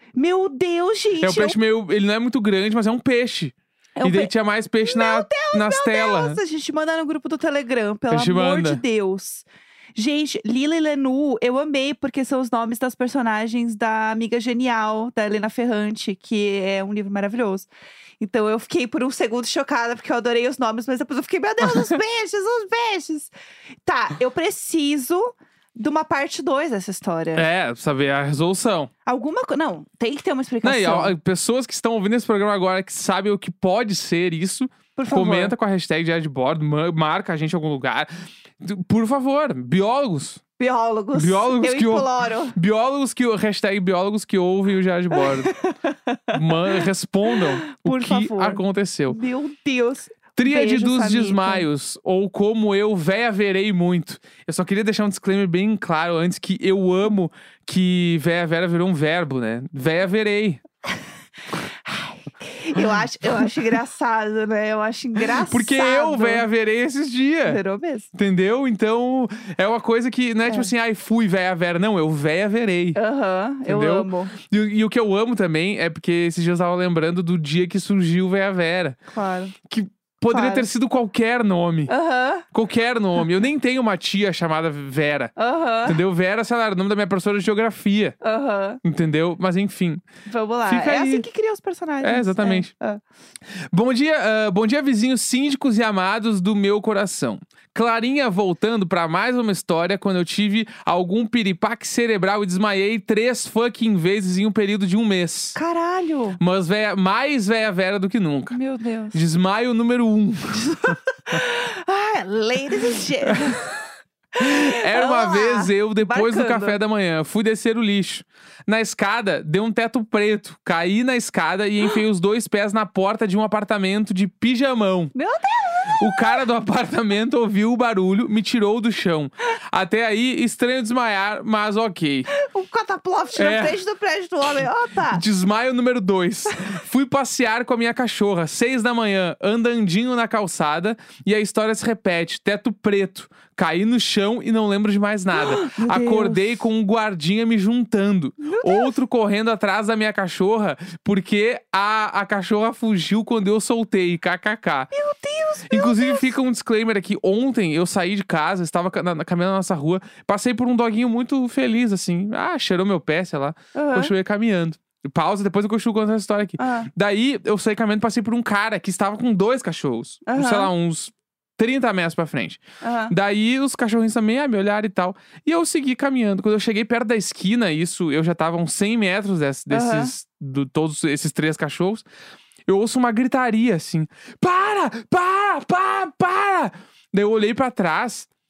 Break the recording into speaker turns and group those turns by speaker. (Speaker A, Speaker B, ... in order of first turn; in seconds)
Speaker A: 0.1-1.6, 4.0-17.7, 18.2-23.3, 23.9-27.4, 29.1-31.1, 35.0-35.5, 40.6-42.5, 45.1-46.8, 47.3-51.6, 61.8-66.4, 67.5-68.1, 72.9-74.3, 79.1-79.5, 80.3-80.7, 81.9-82.5, 85.4-86.0, 88.2-88.8, 90.3-93.0, 105.5-106.4, 108.5-109.2, 110.5-113.7, 114.3-116.8, 125.1-126.4, 132.3-135.2, 145.3-146.6, 148.4-149.0, 154.9-156.3, 163.7-164.1, 166.6-166.9, 170.2-170.7, 172.8-173.1, 179.7-180.1
Speaker B: 1.2-6.4, 8.1-8.8, 27.3-28.9, 30.6-38.1, 38.6-40.4, 41.1-45.5, 46.3-49.2, 50.4-60.6, 65.2-67.6, 68.1-73.0, 73.7-79.0, 79.7-81.9, 82.5-85.3, 85.8-88.2, 88.8-90.0, 90.7-91.2, 92.0-92.7, 93.7-105.6, 106.4-108.6, 109.1-110.9, 113.2-113.6, 114.4-125.1, 125.9-132.3, 133.3-133.8, 135.1-154.9, 155.7-182.0, 182.7-188.3